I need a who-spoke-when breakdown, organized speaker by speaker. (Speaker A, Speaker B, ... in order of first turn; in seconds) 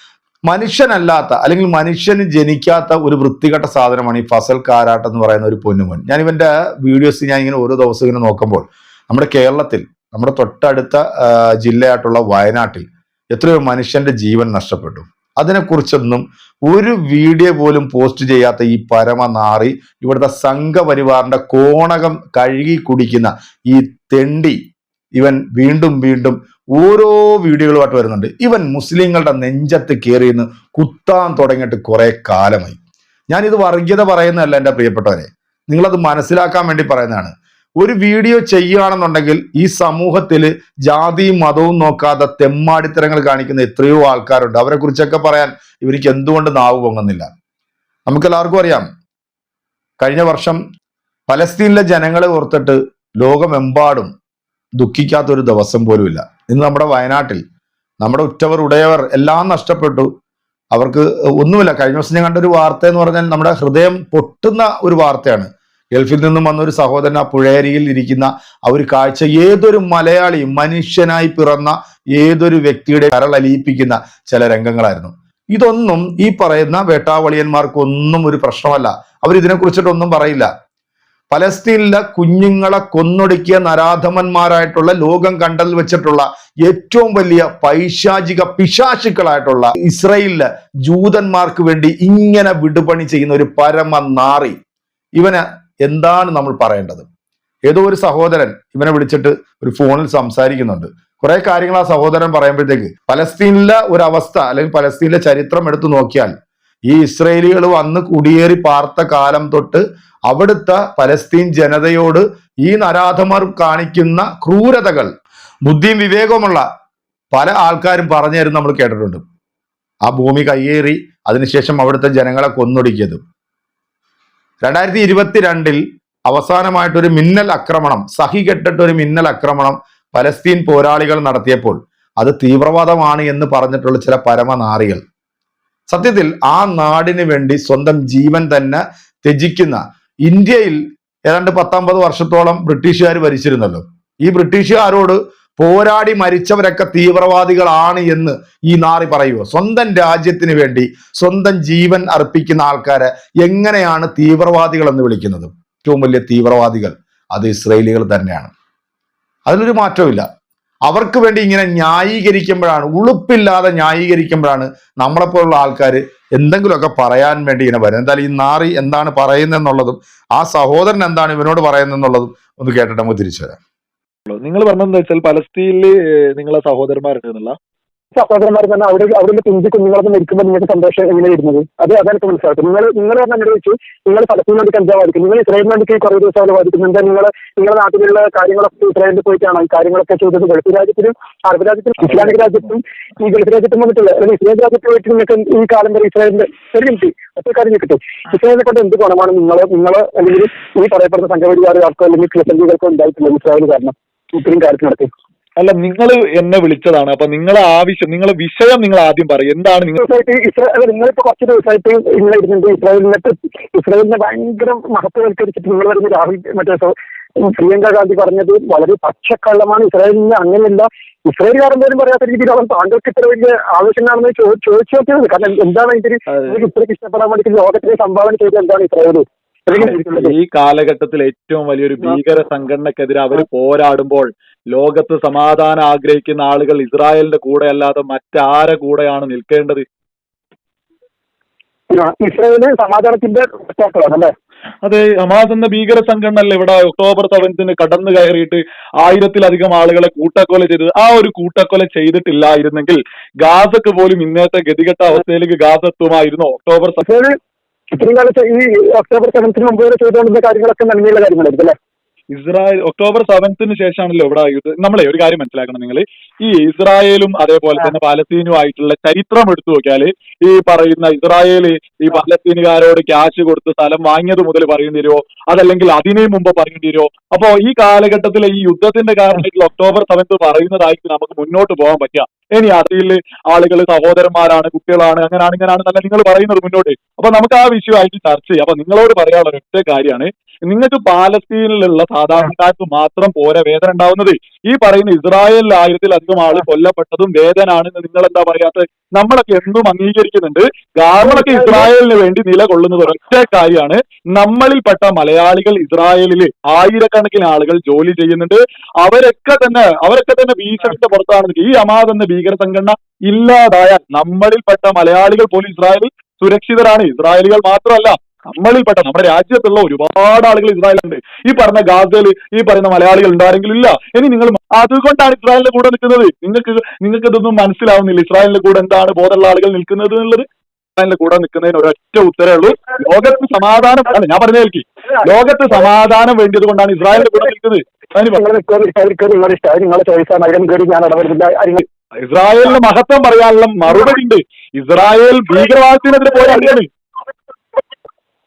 Speaker A: 0.5-24.6, 25.1-32.8, 33.3-47.3, 48.1-48.9, 50.0-50.6, 51.3-54.1, 54.8-57.4, 58.0-60.1, 60.7-80.5, 81.3-94.5, 95.2-97.0, 97.7-106.3, 106.8-115.1, 115.7-116.7, 117.3-119.2, 120.0-123.2, 124.6-135.0, 135.9-158.5, 159.5-160.3, 160.9-173.6
Speaker B: 174.3-177.6, 192.1-192.4, 205.6-210.0, 229.7-239.8, 244.8-257.0, 262.3-330.4, 331.0-338.4, 342.2-346.9
Speaker C: 178.1-205.1, 209.9-230.3, 241.9-244.3, 257.0-257.4, 257.9-261.7, 301.2-301.9, 338.2-341.8